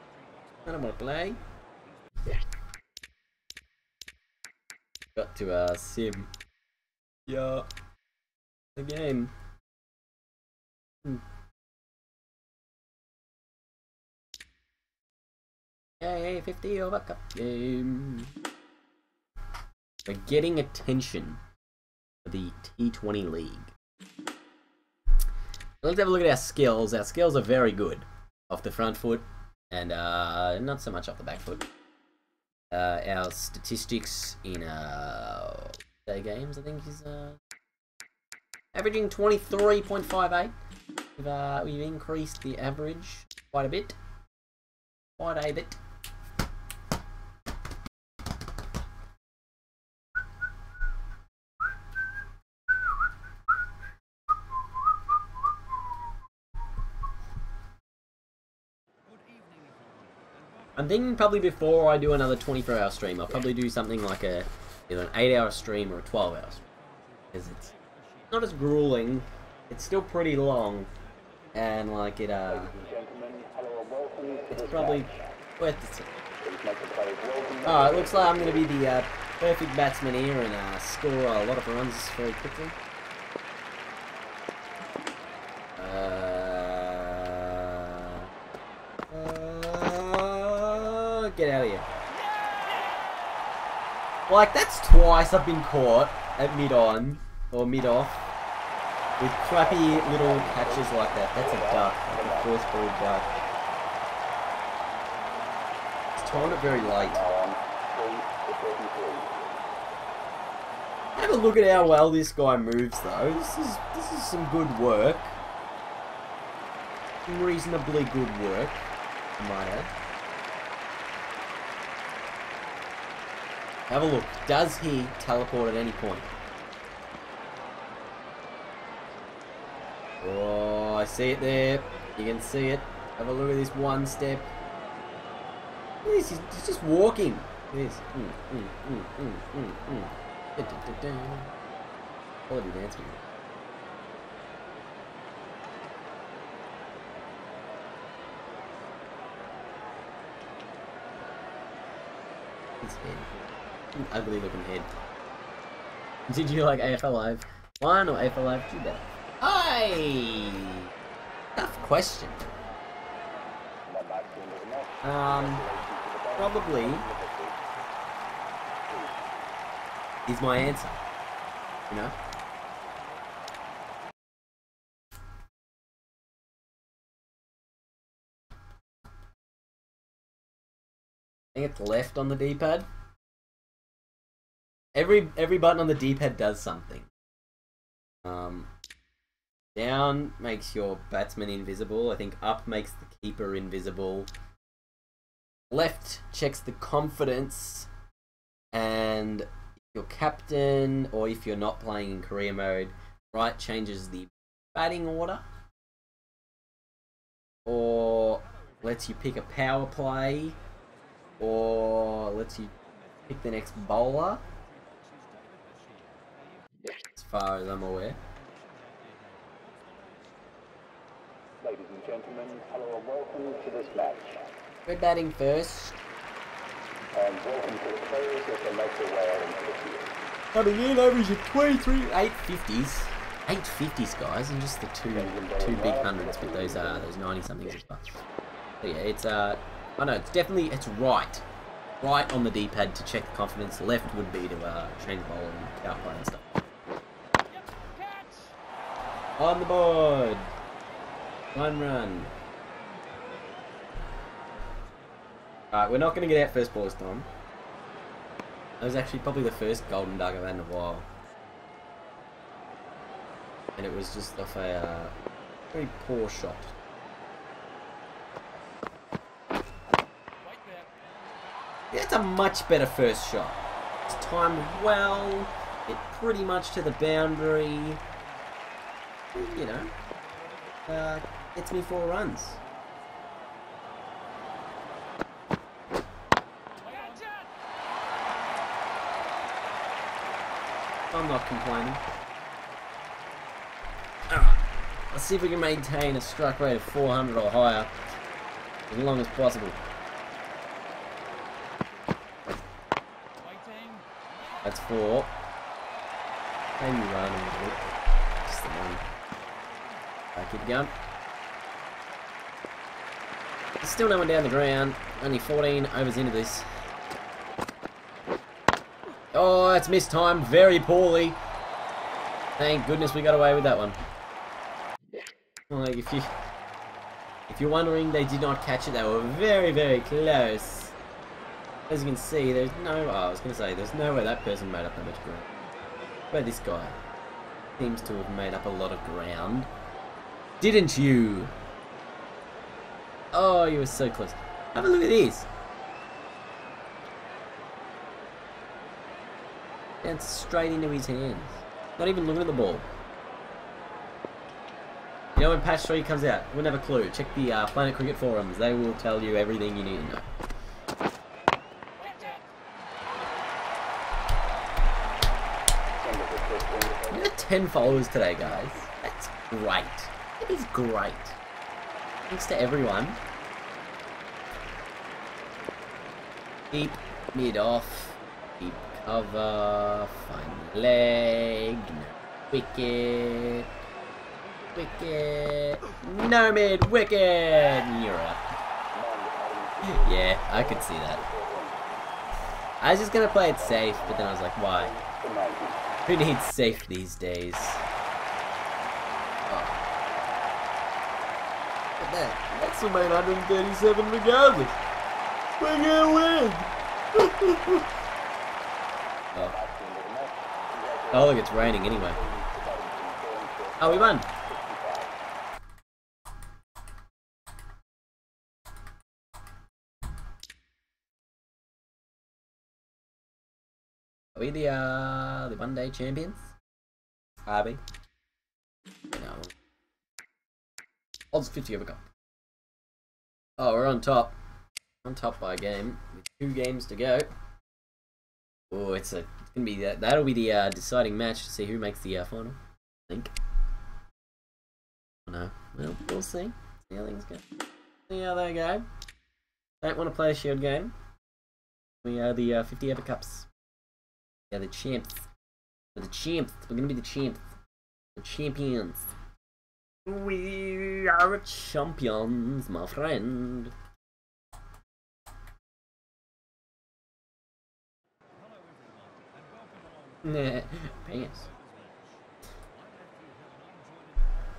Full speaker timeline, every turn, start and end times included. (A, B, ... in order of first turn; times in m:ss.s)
0:00.6-0:01.4 A
0:05.2-0:06.3 A
0:07.2-0:07.6 A
0:08.8-0:09.3 A
0:16.0-0:18.3 A
0:20.0-0:21.4 A
0:22.2-0:23.7 A
0:25.8-0:31.7 A
0:32.7-0:37.4 A
0:38.7-0:40.5 A
0:41.2-0:44.0 A
0:45.2-0:45.8 A
1:00.8-1:06.6 A
1:07.3-1:07.7 A
1:08.3-1:10.9 A
1:11.5-1:12.7 A
1:12.5-1:15.3 B
1:14.5-1:16.1 A
1:16.4-1:18.7 B
1:17.6-1:22.8 A
1:25.8-1:28.3 A
1:29.1-1:31.9 A
1:34.3-1:38.2 A
1:39.2-1:43.3 A
1:39.5-1:42.5 B
1:46.2-1:47.3 A
1:46.7-1:49.4 B
1:51.2-1:55.4 A
1:57.2-1:58.8 A
1:59.4-1:59.9 A
2:03.9-2:06.3 A
2:10.2-2:14.5 A
2:16.0-2:21.5 A
2:22.5-2:23.2 A
2:32.8-2:33.3 A
2:33.9-2:34.9 A
2:36.3-2:40.9 A
2:41.6-2:42.4 A
2:43.8-2:47.6 B
2:45.0-2:45.6 A
2:46.4-2:47.1 A
2:50.3-2:51.0 A
2:51.9-2:52.1 A
3:01.5-3:02.9 A
3:04.9-3:07.1 A
3:08.2-3:08.7 A
3:09.7-3:14.3 A
3:15.7-3:17.9 A
3:18.7-3:25.4 A
3:27.6-3:30.6 A
3:31.4-3:32.7 A
3:33.3-3:34.4 A
3:37.2-3:38.2 A
3:41.6-3:44.5 B
3:44.8-3:46.0 A
3:47.1-3:50.1 B
3:50.5-3:58.2 A
3:55.1-3:57.1 B
3:58.8-4:01.4 A
4:02.0-4:06.5 A
4:09.4-4:10.5 A
4:11.5-4:12.3 A
4:15.7-4:17.3 A
4:18.8-4:21.1 A
4:23.8-4:25.1 A
4:25.7-4:26.7 A
4:31.9-4:38.0 A
4:39.3-4:39.9 A
4:40.9-4:42.6 A
4:51.1-4:52.0 A
4:54.3-4:57.9 A
4:58.9-4:59.8 A
5:04.6-5:05.3 A
5:06.8-5:07.8 A
5:08.4-5:09.0 A
5:10.4-5:10.9 A
5:13.8-5:16.7 A
5:19.3-5:21.4 A
5:22.6-5:24.0 A
5:25.7-5:26.3 A
5:27.5-5:30.9 A
5:31.9-5:35.5 A
5:36.3-5:37.0 A
5:37.8-5:39.7 A
5:40.6-5:41.5 A
5:43.3-5:45.5 A
5:50.0-5:52.9 A
5:55.4-6:00.3 A
6:05.9-6:07.4 B
6:07.1-6:11.4 A
6:12.3-6:13.2 A
6:16.7-6:23.7 A
6:24.7-6:28.4 A
6:28.9-6:31.9 B
6:29.8-6:31.2 A
6:32.8-6:34.9 A
6:33.6-6:35.9 B
6:36.0-6:37.8 A
6:39.5-6:39.8 A
6:42.0-6:44.8 A
6:45.6-6:47.9 A
6:49.4-6:55.2 B
6:51.1-6:52.2 A
6:53.8-6:54.3 A
7:04.3-7:06.5 A
7:07.5-7:07.8 A
7:09.1-7:09.5 A
7:11.3-7:12.0 A
7:13.6-7:14.3 A
7:15.0-7:17.3 A
7:18.7-7:23.3 A
7:25.2-7:27.4 A
7:28.1-7:28.8 A
7:29.8-7:30.9 A
7:32.0-7:33.5 A
7:34.5-7:35.3 A
7:36.0-7:37.4 A
7:38.2-7:39.1 A
7:40.0-7:43.7 A
7:50.2-7:51.5 A